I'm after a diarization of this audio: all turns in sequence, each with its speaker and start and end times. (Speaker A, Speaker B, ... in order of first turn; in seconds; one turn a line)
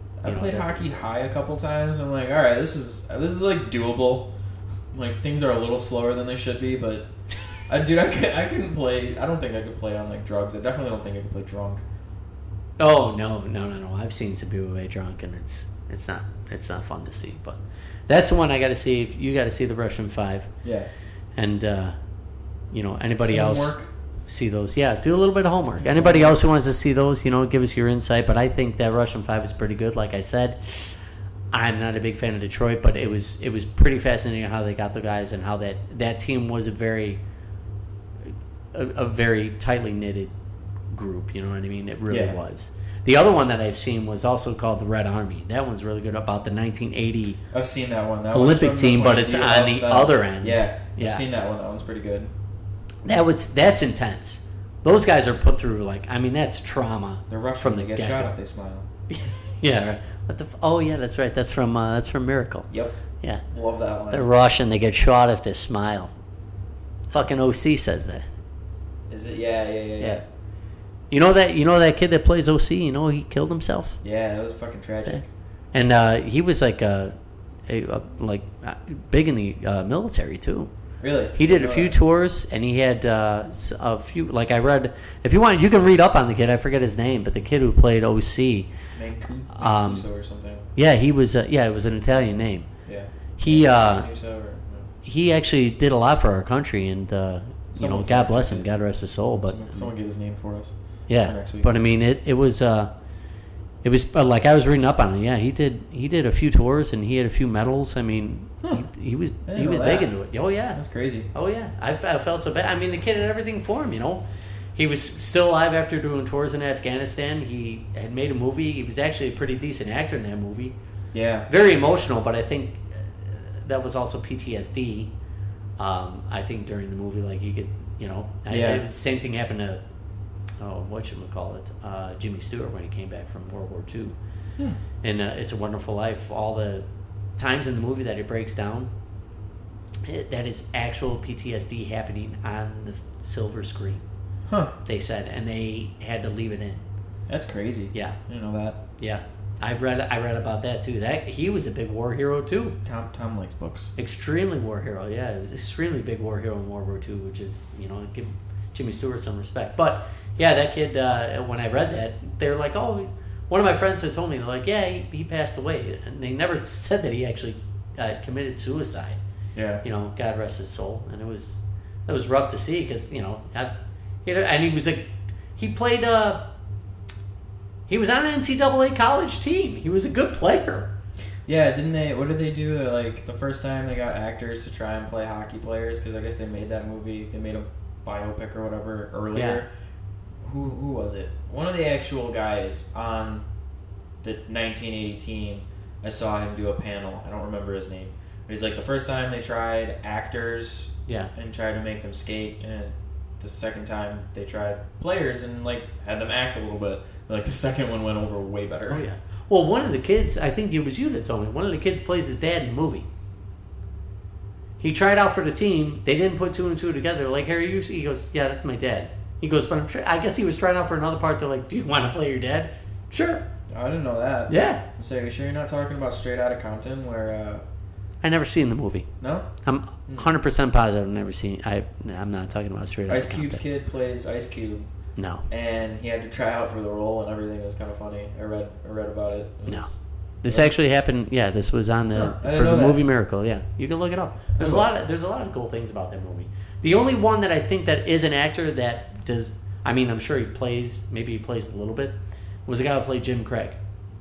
Speaker A: 0.2-4.3
Speaker B: 0.2-1.0
Speaker A: 4.9-7.1
Speaker A: 7.7-11.8
Speaker B: 12.8-20.5
Speaker A: 20.6-20.9
Speaker B: 21.4-22.0
Speaker B: 22.7-30.9
Speaker A: 23.2-23.9
Speaker A: 25.8-26.4
Speaker B: 31.5-37.2
Speaker B: 38.7-40.3
Speaker B: 40.9-47.4
Speaker A: 42.1-42.4
Speaker A: 47.5-52.3
Speaker B: 48.3-51.2
Speaker B: 53.0-58.3
Speaker A: 57.3-58.9
Speaker B: 59.1-62.7
Speaker A: 62.7-63.0
Speaker A: 63.5-64.3
Speaker B: 64.1-66.1
Speaker B: 67.1-68.3
Speaker A: 69.1-70.2
Speaker B: 71.1-74.0
Speaker A: 74.0-75.3
Speaker B: 75.0-77.1
Speaker B: 77.7-80.7
Speaker A: 81.0-82.0
Speaker B: 81.3-88.7
Speaker A: 89.0-90.7
Speaker B: 89.5-90.1
Speaker B: 90.8-92.7
Speaker A: 92.9-94.9
Speaker B: 93.4-94.1
Speaker B: 95.0-99.9
Speaker A: 97.7-98.7
Speaker A: 99.5-100.7
Speaker B: 101.1-102.9
Speaker A: 101.2-101.7
Speaker B: 103.8-110.8
Speaker A: 109.5-110.1
Speaker A: 110.7-111.3
Speaker B: 111.3-114.2
Speaker B: 114.8-120.7
Speaker A: 121.1-121.5
Speaker B: 121.5-125.1
Speaker B: 125.8-129.8
Speaker A: 128.5-128.8
Speaker B: 130.6-134.2
Speaker B: 135.0-136.8
Speaker B: 137.4-138.9
Speaker B: 140.0-144.0
Speaker A: 144.5-144.7
Speaker B: 144.8-146.8
Speaker A: 147.3-148.8
Speaker B: 149.0-152.8
Speaker A: 152.8-153.9
Speaker B: 154.0-169.2
Speaker A: 169.6-169.8
Speaker B: 169.8-176.4
Speaker B: 177.9-180.9
Speaker A: 181.5-189.7
Speaker B: 189.3-189.6
Speaker A: 190.4-193.5
Speaker A: 194.2-209.0
Speaker B: 201.1-201.3
Speaker B: 208.9-213.1
Speaker B: 214.8-223.4
Speaker A: 223.7-227.6
Speaker B: 224.5-224.8
Speaker B: 228.2-229.1
Speaker A: 229.2-229.5
Speaker B: 229.7-233.6
Speaker A: 233.1-234.9
Speaker B: 235.2-235.5
Speaker A: 235.5-240.7
Speaker B: 240.4-252.1
Speaker A: 242.1-243.0
Speaker A: 244.6-244.9
Speaker B: 252.7-253.8